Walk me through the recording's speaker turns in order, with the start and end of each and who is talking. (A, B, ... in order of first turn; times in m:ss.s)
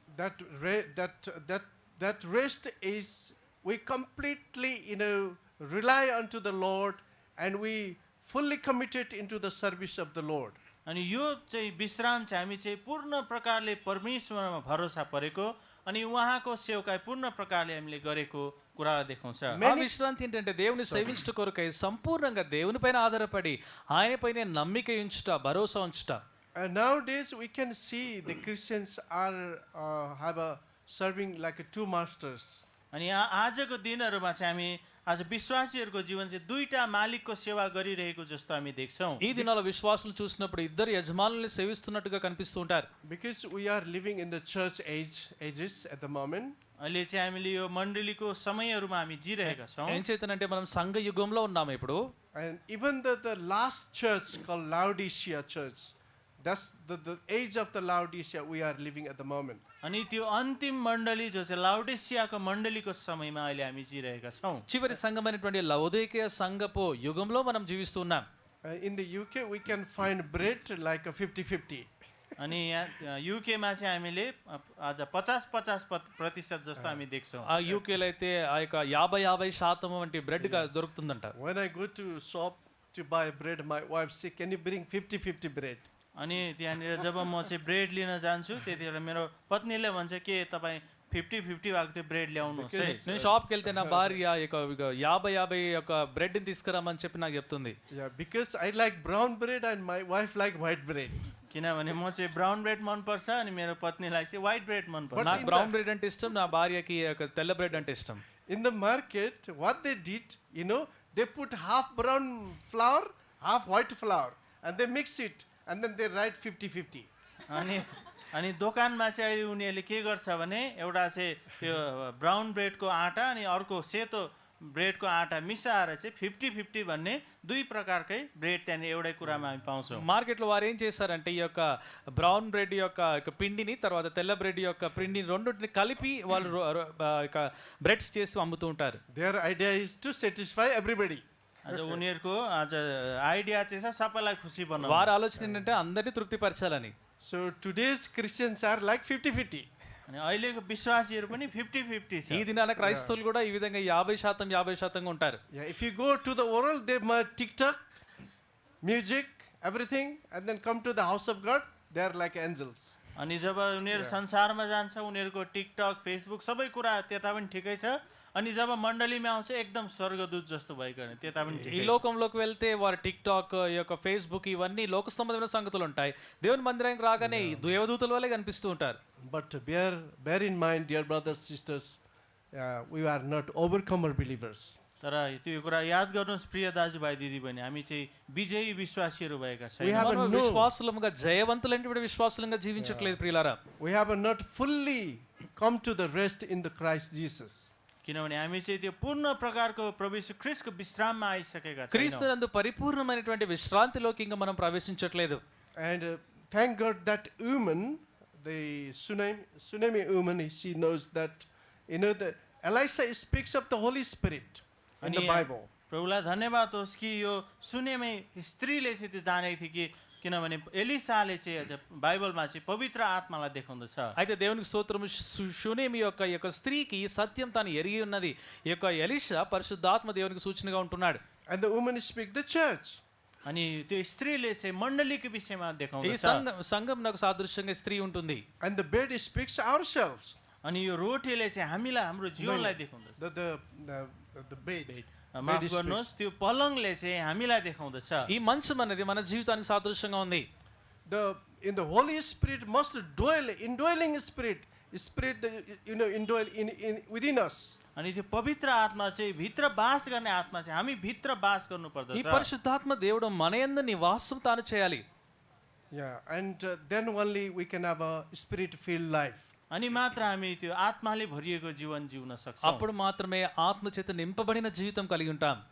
0:00.1-0:10.6 A
0:10.9-0:19.6 B
0:19.5-0:19.9 A
0:19.6-0:26.2 C
0:20.8-0:21.3 A
0:26.6-0:32.6 A
0:32.9-0:39.5 B
0:39.2-0:42.9 C
0:43.0-0:46.6 A
0:46.8-0:50.0 B
0:49.5-0:52.0 C
0:52.4-0:59.6 A
0:59.8-1:04.7 B
1:04.7-1:08.2 C
1:08.7-1:11.9 A
1:12.4-1:17.6 B
1:17.5-1:21.3 C
1:20.4-1:20.7 A
1:21.4-1:25.8 A
1:26.2-1:33.1 B
1:32.4-1:34.2 A
1:33.0-1:37.8 C
1:37.9-1:41.3 A
1:41.5-1:45.5 B
1:45.1-1:45.8 A
1:45.2-1:48.2 C
1:48.5-1:57.1 A
1:57.5-2:10.1 B
2:09.9-2:11.6 C
2:12.2-2:19.0 C
2:19.1-2:22.0 A
2:21.6-2:25.1 B
2:24.8-2:26.9 C
2:25.4-2:25.8 A
2:27.2-2:29.7 A
2:30.1-2:32.4 B
2:32.3-2:35.4 C
2:32.8-2:33.2 A
2:35.5-2:37.8 A
2:38.8-2:43.0 A
2:43.2-2:52.0 B
2:43.9-2:44.2 A
2:51.5-2:51.9 A
2:51.6-2:59.0 C
2:57.2-2:57.8 A
2:59.3-3:02.0 A
3:02.6-3:04.8 A
3:05.0-3:10.1 B
3:09.8-3:10.7 A
3:10.0-3:13.6 C
3:12.8-3:13.2 A
3:13.8-3:17.7 A
3:18.0-3:22.3 B
3:21.9-3:25.4 C
3:25.8-3:35.7 A
3:35.0-3:44.1 B
3:44.2-3:51.2 C
3:51.5-3:53.0 A
3:53.5-3:56.4 B
3:56.0-3:58.4 C
3:58.6-4:00.4 A
4:00.6-4:03.2 B
4:02.4-4:06.1 A
4:04.9-4:08.3 B
4:08.3-4:10.5 C
4:11.1-4:17.8 A
4:18.0-4:22.5 B
4:22.1-4:25.0 C
4:25.9-4:29.5 A
4:29.7-4:32.9 B
4:32.6-4:35.6 C